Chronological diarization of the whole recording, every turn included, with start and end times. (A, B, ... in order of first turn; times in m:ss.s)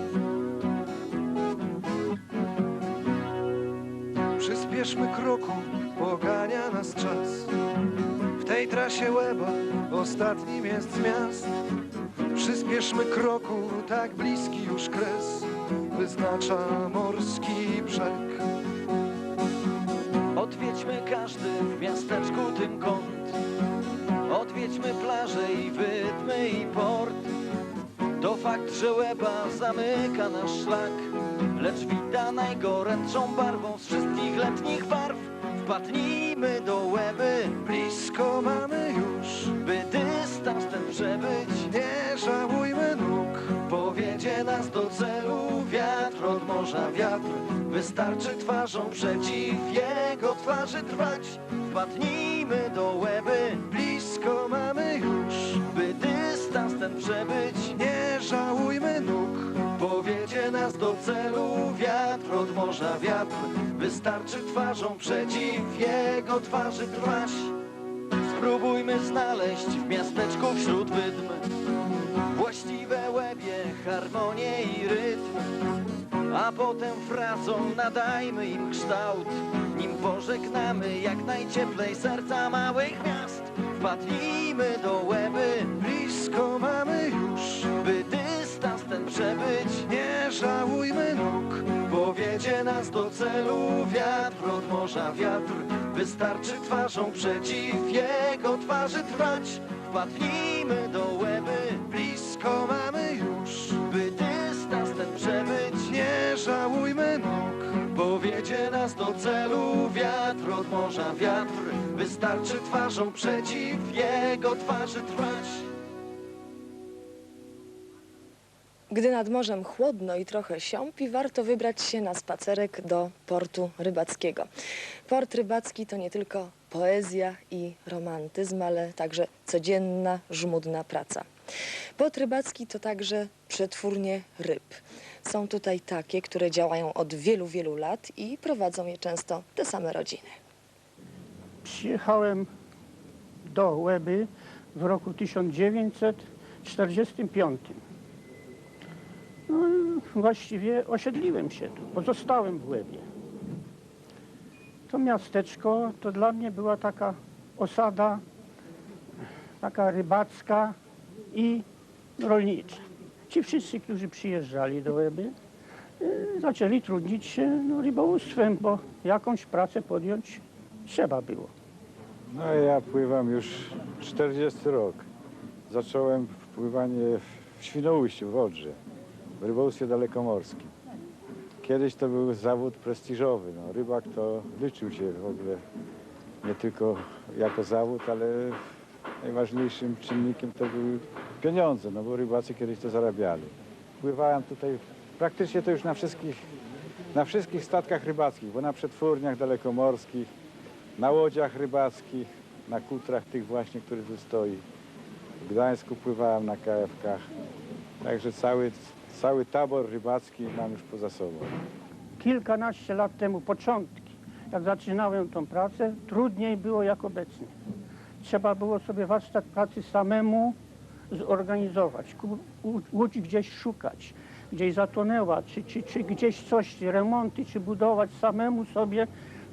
0:04.4-0:07.5 A
0:08.4-0:11.5 A
0:12.3-0:18.4 A
0:20.3-0:23.4 B
0:24.3-0:27.3 B
0:28.2-0:37.6 B
0:37.6-0:39.6 A
0:39.6-0:41.7 B
0:41.7-0:43.6 A
0:43.6-0:53.7 B
0:53.7-0:55.6 A
0:55.7-0:57.8 B
0:57.7-0:59.6 A
0:59.7-1:07.5 B
1:08.2-1:11.4 B
1:12.2-1:15.5 B
1:16.3-1:25.8 B
1:25.8-1:27.7 A
1:27.8-1:29.9 B
1:29.8-1:31.8 A
1:31.8-1:41.9 B
1:41.9-1:43.8 A
1:43.8-1:46.0 B
1:45.8-1:47.8 A
1:47.8-1:55.7 B
1:58.9-2:04.5 C
2:05.1-2:11.2 C
2:12.0-2:20.3 C
2:21.6-2:22.5 D
2:23.4-2:27.8 D
2:29.5-2:33.1 D
2:34.9-2:38.2 D
2:39.6-2:40.8 D
2:41.3-2:41.6 D
2:42.2-2:45.3 D
2:46.0-2:51.5 D
2:52.3-2:55.1 E
2:55.7-2:58.8 E
2:59.4-3:00.7 E
3:01.6-3:05.6 E
3:06.4-3:08.6 E
3:09.2-3:16.4 E
3:17.1-3:20.3 E
3:21.0-3:24.6 E
3:25.4-3:27.2 E
3:28.0-3:31.5 E
3:32.2-3:37.5 D
3:38.2-3:40.6 D
3:41.1-3:49.1 D